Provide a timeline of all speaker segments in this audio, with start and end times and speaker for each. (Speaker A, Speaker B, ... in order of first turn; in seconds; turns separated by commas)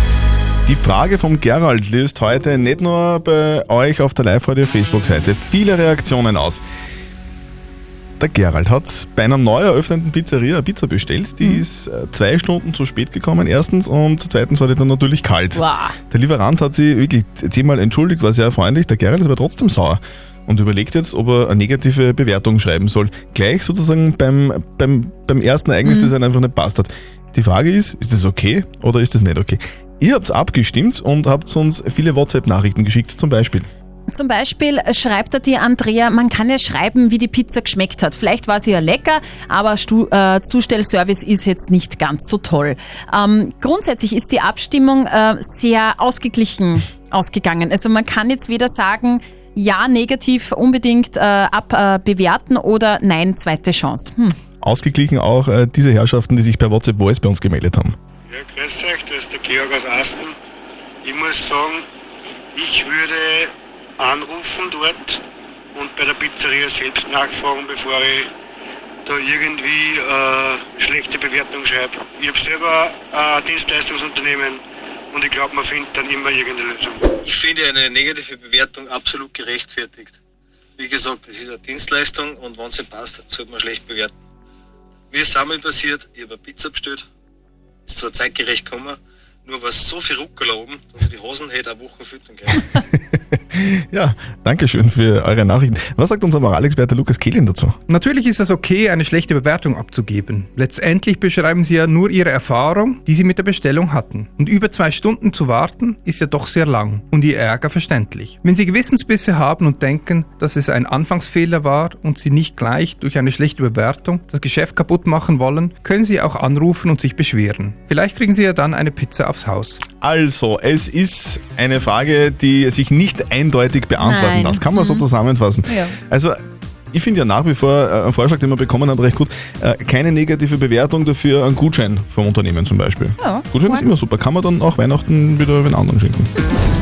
Speaker A: 0.7-6.6, Speaker A: 8.2-33.7, Speaker B: 15.5-15.9, Speaker B: 25.8-26.1, Speaker B: 34.1-54.4, Speaker A: 54.6-58.0, Speaker C: 58.3-60.4, Speaker C: 61.0-61.9, Speaker C: 62.5-65.2, Speaker C: 65.7-68.3, Speaker C: 69.0-77.1, Speaker D: 77.2-80.2, Speaker D: 80.8-84.1, Speaker D: 85.1-87.0, Speaker D: 87.9-92.7, Speaker A: 92.7-97.8, Speaker E: 97.9-119.8, Speaker A: 120.0-126.4, Speaker B: 124.0-125.0, Speaker B: 125.7-125.9, Speaker A: 126.9-136.3, Speaker B: 133.2-133.9